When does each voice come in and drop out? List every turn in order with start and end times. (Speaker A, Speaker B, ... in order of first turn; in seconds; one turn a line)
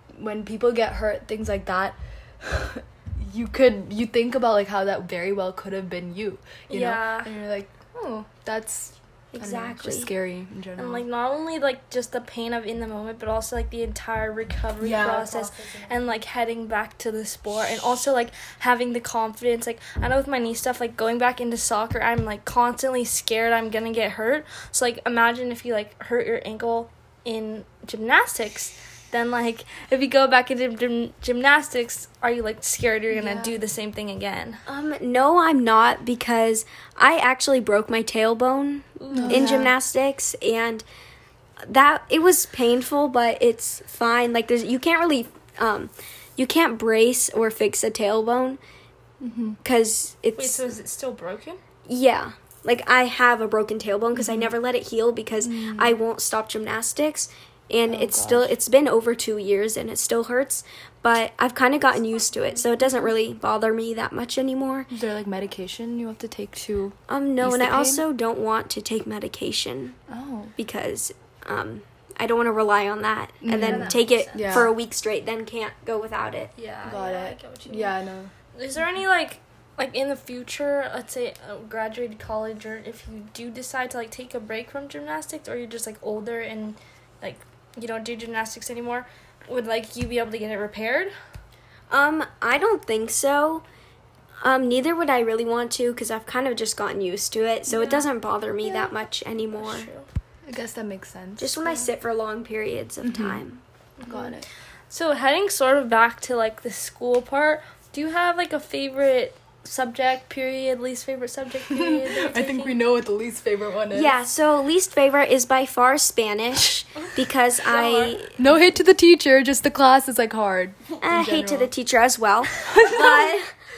Speaker A: 0.2-11.1
Speaker B: 6.7-7.3
Speaker C: 9.3-10.1
Speaker B: 10.8-34.6
Speaker A: 14.8-16.0
Speaker A: 33.1-33.6
Speaker C: 34.6-40.8
Speaker B: 39.0-39.6
Speaker A: 39.1-39.7
Speaker C: 41.6-48.6
Speaker A: 49.2-49.6
Speaker C: 49.6-50.7
Speaker B: 50.4-51.6
Speaker C: 51.9-64.9
Speaker A: 54.1-54.5
Speaker A: 55.4-56.0
Speaker A: 57.9-58.5
Speaker B: 62.2-62.6
Speaker A: 64.9-68.0
Speaker C: 67.1-70.0
Speaker A: 70.1-70.5
Speaker C: 70.6-76.5
Speaker A: 73.4-74.7
Speaker B: 73.5-74.7
Speaker B: 76.6-77.9
Speaker A: 76.8-78.3
Speaker B: 78.5-91.1
Speaker C: 91.9-93.6
Speaker C: 94.4-99.9
Speaker B: 97.7-98.1
Speaker B: 98.6-98.9
Speaker B: 99.5-100.0
Speaker A: 100.5-101.6
Speaker C: 101.4-103.6
Speaker A: 103.0-103.4
Speaker B: 104.0-104.4
Speaker A: 104.0-104.5
Speaker B: 104.9-112.8
Speaker A: 111.7-114.2
Speaker C: 113.9-118.4
Speaker B: 117.0-118.2
Speaker A: 118.4-121.7
Speaker C: 121.0-123.5
Speaker A: 122.6-123.3